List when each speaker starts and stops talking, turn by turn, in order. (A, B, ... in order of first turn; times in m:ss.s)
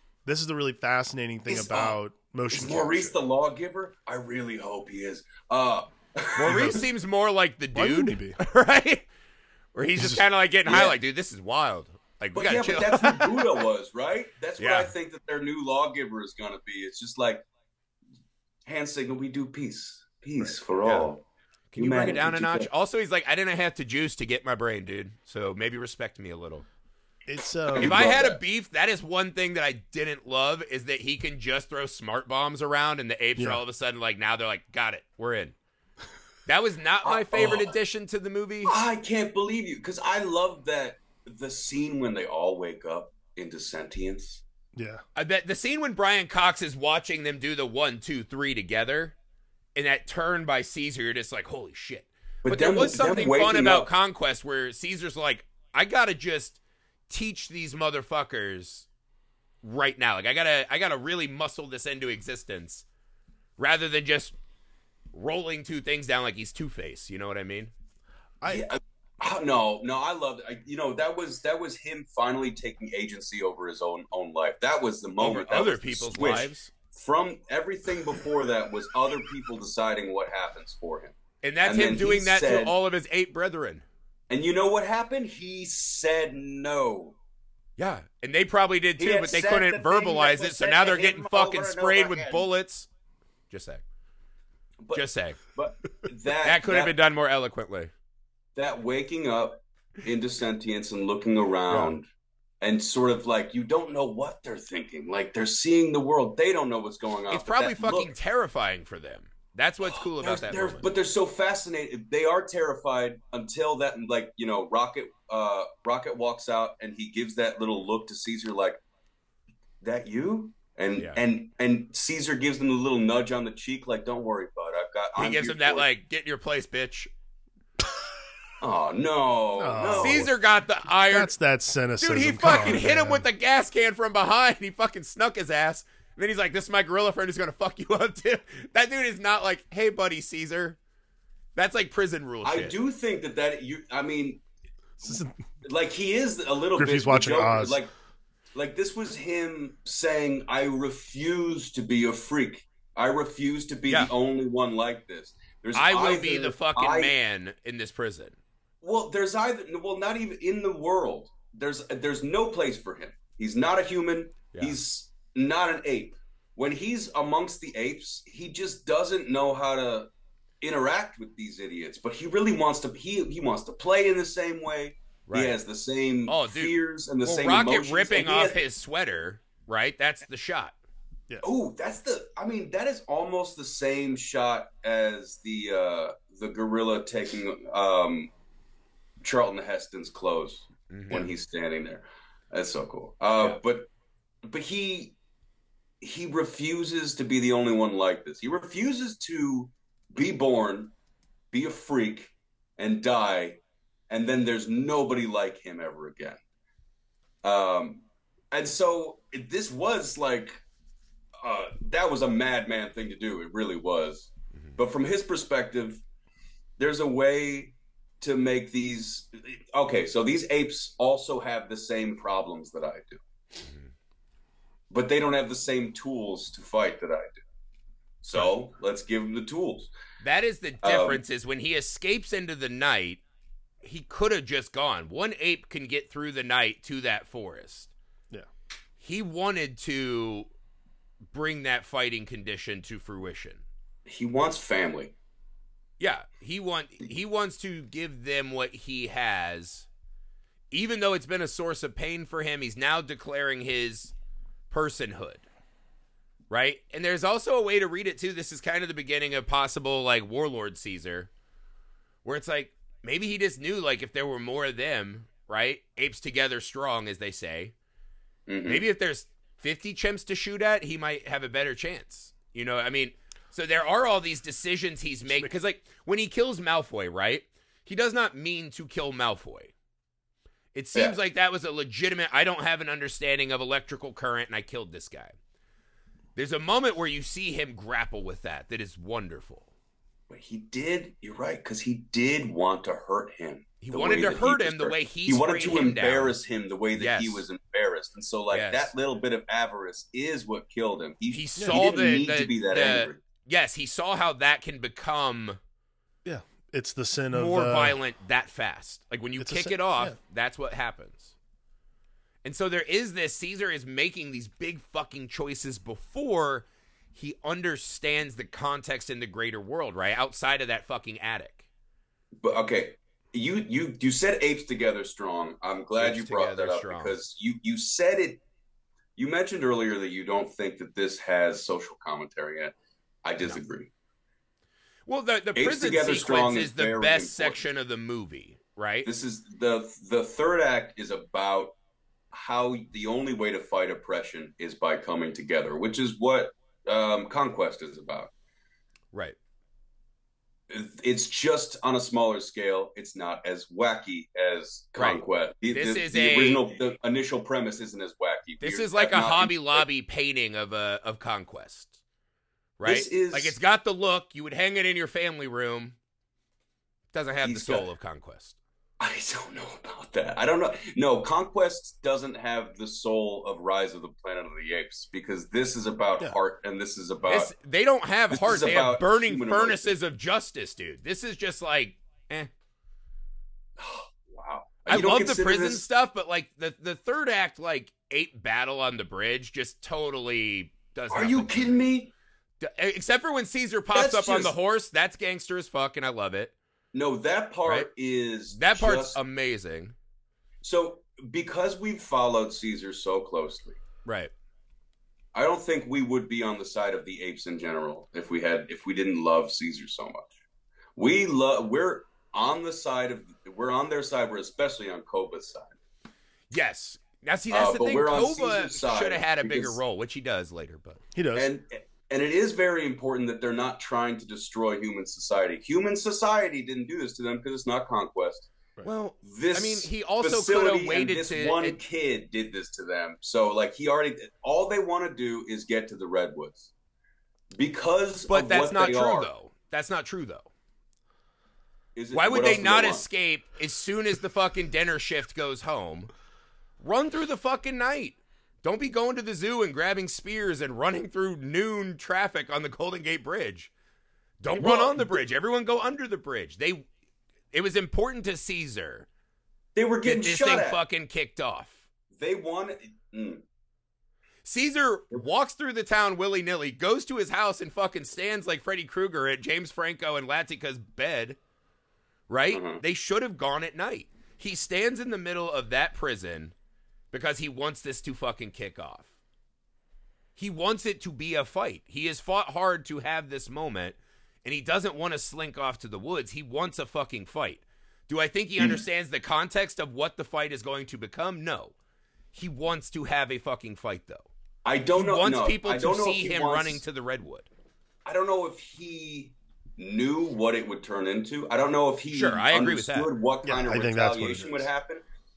0:00.3-0:03.2 A
0:01.5-0:02.0 B
0:02.5-0:06.8 B
0:06.4-0:09.1 C
0:06.5-0:06.8 A
0:07.7-0:08.4 A
0:09.8-0:13.5 C
0:10.0-0:10.2 A
0:10.7-0:11.0 B
0:12.4-0:17.4 B
0:14.6-0:14.9 C
0:18.7-0:21.2 B
0:20.8-0:21.1 C
0:21.7-0:26.6 C
0:21.8-0:22.7 B
0:27.3-0:28.2 A
0:27.8-0:35.6 C
0:27.8-0:28.4 B
0:33.4-0:33.6 A
0:36.5-0:38.8 C
0:37.0-0:37.7 B
0:38.7-0:44.4 B
0:44.8-0:45.0 A
0:45.2-0:49.2 C
0:49.8-0:58.9 C
0:52.4-0:53.9 B
0:59.6-1:02.8 C
1:03.6-1:04.4 C
1:05.1-1:07.7 C
1:08.4-1:08.7 A
1:08.5-1:22.8 B
1:15.2-1:16.7 C
1:21.4-1:23.8 C
1:24.3-1:27.2 B
1:27.8-1:32.9 C
1:29.0-1:32.5 B
1:33.5-1:33.8 C
1:34.8-1:36.9 B
1:34.9-1:35.4 C
1:36.4-1:37.9 C
1:38.6-1:42.1 B
1:42.6-1:48.1 B
1:47.3-1:50.8 C
1:49.8-1:58.8 B
1:59.8-2:05.9 B
2:05.2-2:07.1 C
2:08.6-2:10.3 B
2:09.6-2:10.3 A
2:10.0-2:11.3 C
2:11.1-2:13.3 A
2:12.0-2:20.8 C
2:21.6-2:22.8 C
2:22.4-2:24.4 B
2:25.0-2:25.4 A
2:25.0-2:27.9 B
2:26.8-2:27.8 A
2:28.5-2:37.1 B
2:35.8-2:38.4 C
2:38.8-2:50.1 B
2:50.6-2:58.6 B
2:55.3-2:55.6 C
2:56.3-3:00.8 C
3:01.4-3:08.3 B
3:09.2-3:13.9 B
3:10.9-3:11.2 C
3:14.4-3:15.2 B
3:16.0-3:20.9 B
3:21.5-3:26.4 B
3:27.4-3:30.6 B
3:31.4-3:36.0 B
3:36.8-3:43.2 B
3:43.7-3:43.9 C
3:44.9-3:47.4 B
3:48.2-3:49.9 B
3:50.2-3:53.2 C
3:50.8-3:51.2 B
3:53.8-3:57.9 C
3:59.0-4:00.5 C
4:01.3-4:03.6 C
4:04.1-4:05.1 B
4:06.0-4:09.9 C
4:10.7-4:14.1 C
4:14.7-4:15.5 C
4:16.5-4:21.3 C
4:22.2-4:27.7 C
4:28.5-4:28.8 B
4:28.7-4:39.7 C
4:40.7-4:45.4 C
4:46.4-4:49.7 C
4:50.3-5:03.2 B
4:53.8-4:56.4 C
4:57.0-4:57.4 C
4:58.5-4:58.9 C
5:01.3-5:05.6 C
5:06.2-5:08.0 A
5:07.3-5:11.3 C
5:09.4-5:10.2 A
5:12.4-5:21.7 C
5:22.4-5:28.4 B
5:26.0-5:27.2 C
5:29.2-5:33.9 B
5:35.1-5:39.1 C
5:35.6-5:37.6 B
5:39.0-5:41.8 B
5:42.3-5:48.3 B
5:50.7-5:59.8 B
5:55.0-5:56.6 C
5:58.6-6:02.0 C
6:02.8-6:06.0 C
6:02.8-6:03.6 B
6:07.1-6:08.6 C
6:07.4-6:07.9 B
6:09.0-6:17.5 B
6:17.3-6:22.5 C
6:18.3-6:19.9 B
6:23.8-6:25.9 B
6:24.9-6:31.8 C
6:31.1-6:32.1 B
6:32.6-6:36.5 C
6:33.9-6:34.5 B
6:36.9-6:39.2 B
6:38.5-6:40.0 C
6:40.6-6:43.8 B
6:44.0-6:44.3 C
6:45.3-6:50.3 B
6:51.0-6:55.8 B
6:56.5-7:01.0 C
6:57.5-6:59.8 B
7:01.2-7:01.5 A
7:01.4-7:08.5 B
7:08.8-7:11.8 C
7:09.2-7:16.7 B
7:17.6-7:19.3 B
7:18.3-7:20.5 C
7:22.0-7:23.1 B
7:22.1-7:26.1 C
7:26.8-7:33.7 C
7:34.4-7:36.9 C
7:34.6-7:35.2 B
7:37.5-7:39.1 C
7:39.8-7:40.8 B
7:40.0-7:41.8 C
7:42.2-7:43.4 B
7:44.4-7:51.4 C
7:52.3-7:56.5 C
7:52.5-7:52.8 B
7:57.1-7:59.1 C
8:00.4-8:11.7 C
8:12.3-8:14.3 C
8:14.6-8:16.8 B
8:15.0-8:17.5 C
8:18.0-8:25.0 B
8:22.1-8:23.1 C
8:23.4-8:24.7 A